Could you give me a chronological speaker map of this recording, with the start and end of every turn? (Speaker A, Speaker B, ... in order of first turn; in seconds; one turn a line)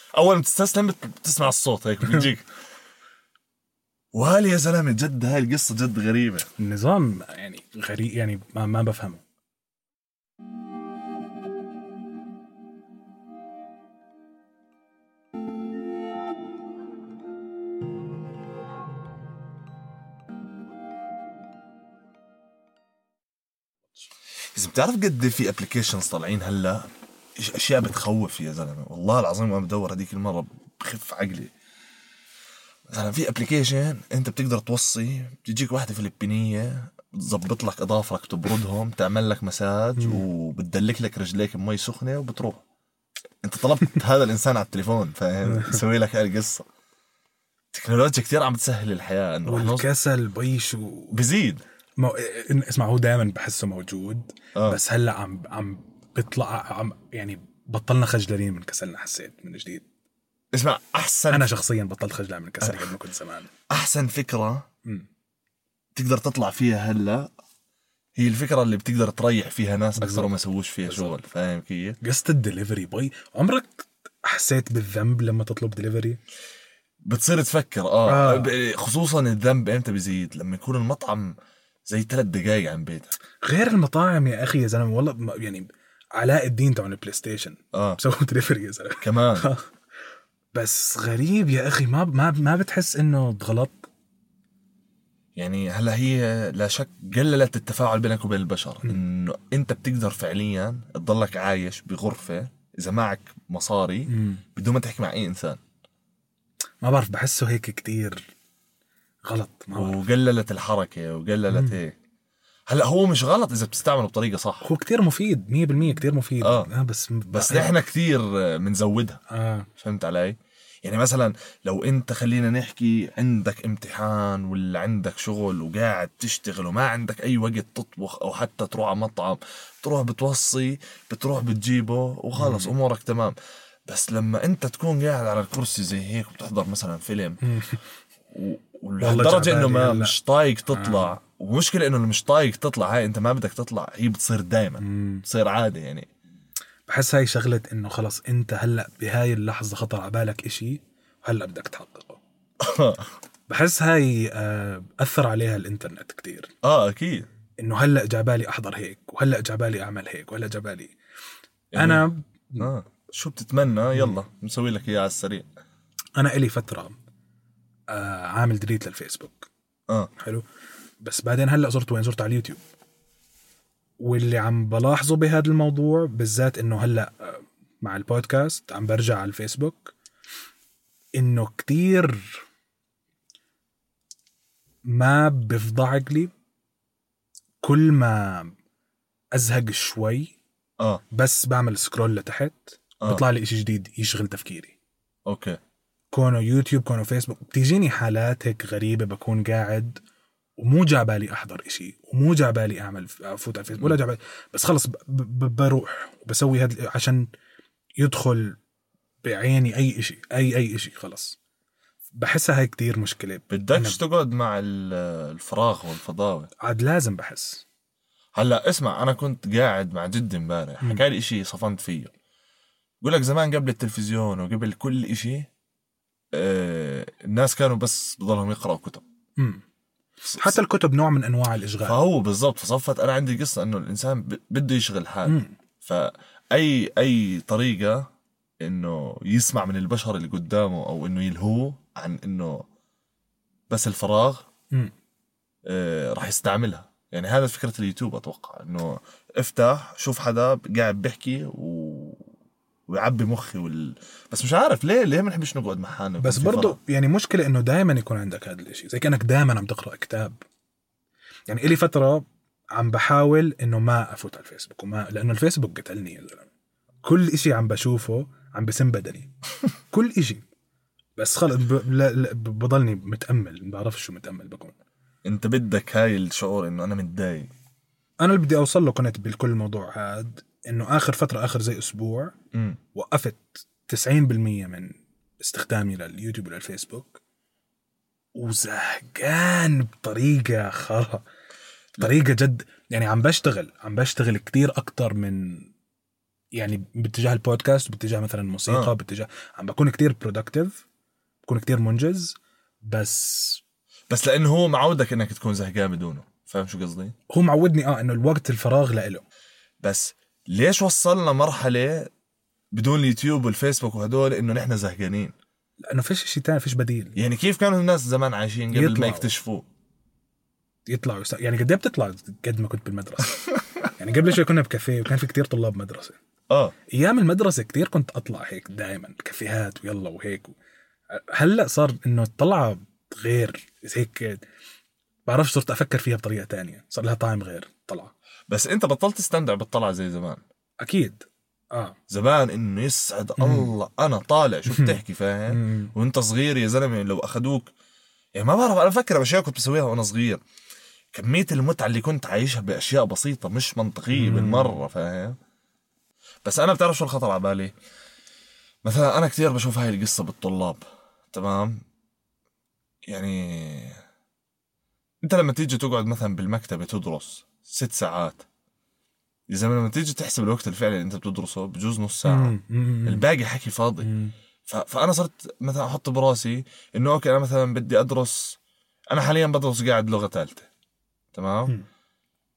Speaker A: 0.1-2.5
Speaker A: 4.1-6.5
Speaker B: 6.6-9.2
Speaker A: 24.5-31.5
Speaker A: 32.9-42.6
Speaker B: 40.0-40.2
Speaker A: 43.4-46.6
Speaker B: 45.5-45.8
Speaker A: 47.7-49.9
Speaker B: 49.5-51.1
Speaker A: 51.1-51.6
Speaker B: 52.0-59.8
Speaker A: 60.5-61.5
Speaker B: 61.3-63.5
Speaker A: 62.6-62.9
Speaker A: 63.7-64.7
Speaker A: 66.0-67.3
Speaker A: 68.2-72.0
Speaker B: 70.0-70.3
Speaker B: 70.9-71.2
Speaker B: 72.0-76.2
Speaker A: 77.0-81.3
Speaker B: 78.0-78.5
Speaker A: 81.9-83.1
Speaker B: 83.4-89.7
Speaker A: 87.7-88.0
Speaker A: 89.0-89.5
Speaker B: 90.5-93.9
Speaker A: 95.4-105.6
Speaker B: 104.1-104.4
Speaker B: 106.8-108.3
Speaker B: 109.3-110.0
Speaker A: 109.7-112.0
Speaker B: 111.5-111.8
Speaker A: 112.7-114.7
Speaker B: 114.6-117.7
Speaker A: 116.4-116.7
Speaker A: 117.3-119.2
Speaker B: 119.3-119.7
Speaker A: 119.8-133.3
Speaker B: 132.3-132.7
Speaker A: 133.9-137.4
Speaker B: 137.4-137.8
Speaker A: 138.3-146.1
Speaker B: 139.0-140.2
Speaker B: 140.7-141.2
Speaker B: 144.8-145.2
Speaker B: 146.9-152.2
Speaker A: 152.6-153.1
Speaker B: 153.5-156.5
Speaker A: 156.6-157.2
Speaker B: 157.6-160.9
Speaker A: 161.7-162.1
Speaker B: 161.7-162.7
Speaker A: 162.6-165.5
Speaker B: 166.2-167.0
Speaker B: 167.9-169.5
Speaker B: 170.2-170.4
Speaker B: 171.0-172.6
Speaker B: 174.0-179.9
Speaker B: 181.2-182.4
Speaker B: 184.9-186.3
Speaker B: 187.6-188.5
Speaker B: 189.3-190.3
Speaker B: 191.1-194.8
Speaker A: 195.3-195.6
Speaker B: 196.1-200.0
Speaker B: 200.6-207.3
Speaker B: 208.0-208.6
Speaker B: 209.2-211.4
Speaker B: 212.1-214.0
Speaker A: 213.5-216.5
Speaker B: 216.6-217.6
Speaker A: 218.3-222.1
Speaker A: 223.0-225.5
Speaker A: 226.3-229.0
Speaker B: 229.4-229.6
Speaker B: 230.2-232.0
Speaker A: 231.8-238.0
Speaker B: 235.3-235.6
Speaker A: 238.6-242.6
Speaker A: 243.7-244.4
Speaker A: 245.7-252.3
Speaker A: 252.9-256.8
Speaker B: 256.2-260.4
Speaker B: 261.5-262.2
Speaker B: 262.8-266.5
Speaker B: 267.0-269.3
Speaker B: 269.9-270.4
Speaker B: 271.2-274.7
Speaker A: 275.2-277.5
Speaker B: 278.2-282.3
Speaker A: 282.5-282.8
Speaker B: 282.9-287.2
Speaker B: 288.3-291.2
Speaker B: 292.0-295.7
Speaker B: 296.6-300.8
Speaker A: 298.7-298.9
Speaker B: 301.4-303.6
Speaker A: 304.1-307.1
Speaker B: 307.3-309.2
Speaker A: 309.8-312.1
Speaker A: 312.7-315.3
Speaker B: 315.8-317.1
Speaker A: 317.2-319.6
Speaker B: 318.7-319.3
Speaker B: 320.9-326.2
Speaker B: 326.9-330.5
Speaker B: 331.1-334.4
Speaker B: 335.2-338.1
Speaker A: 338.5-340.4
Speaker B: 340.8-342.0
Speaker A: 342.1-347.7
Speaker B: 343.4-343.7
Speaker B: 344.7-345.0
Speaker B: 345.5-345.9
Speaker A: 348.3-350.4
Speaker A: 351.1-355.4
Speaker B: 354.1-354.8
Speaker A: 356.4-357.7
Speaker A: 358.8-361.8
Speaker A: 363.1-364.0
Speaker A: 365.2-368.4
Speaker A: 369.5-374.1
Speaker B: 372.2-373.2
Speaker B: 374.0-374.3
Speaker A: 374.7-378.6
Speaker A: 379.1-380.7
Speaker A: 381.3-381.7